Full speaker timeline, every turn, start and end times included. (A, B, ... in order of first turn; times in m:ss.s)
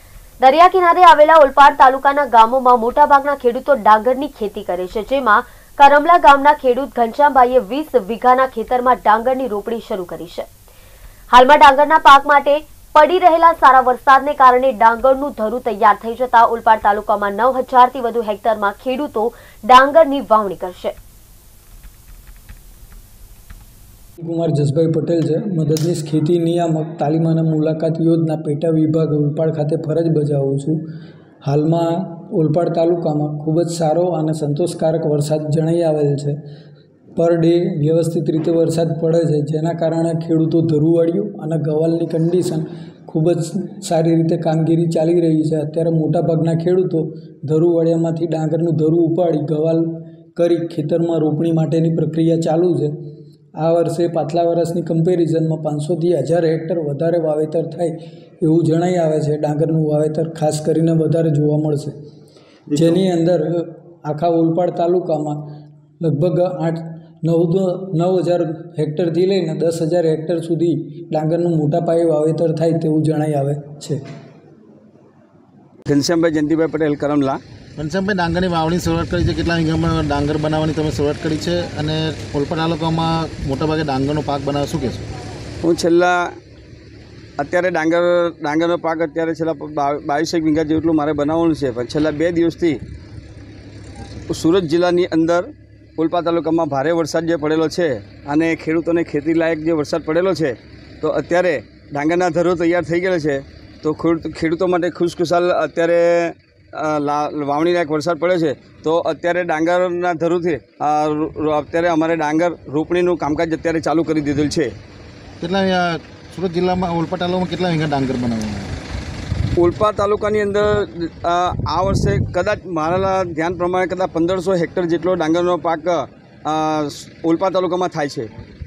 0:00.4-0:10.4 A
0:11.3-0:20.9 A
0:24.2-0:30.8 B
0:31.4-0:36.4 B
0:37.2-0:52.9 B
0:53.6-1:01.9 B
1:02.7-1:05.4 B
1:06.0-1:14.0 B
1:15.9-1:17.4 C
1:17.8-1:25.0 D
1:25.6-1:26.3 C
1:27.4-1:32.8 C
1:34.3-1:54.7 C
1:55.4-1:58.7 D
1:59.6-2:08.3 C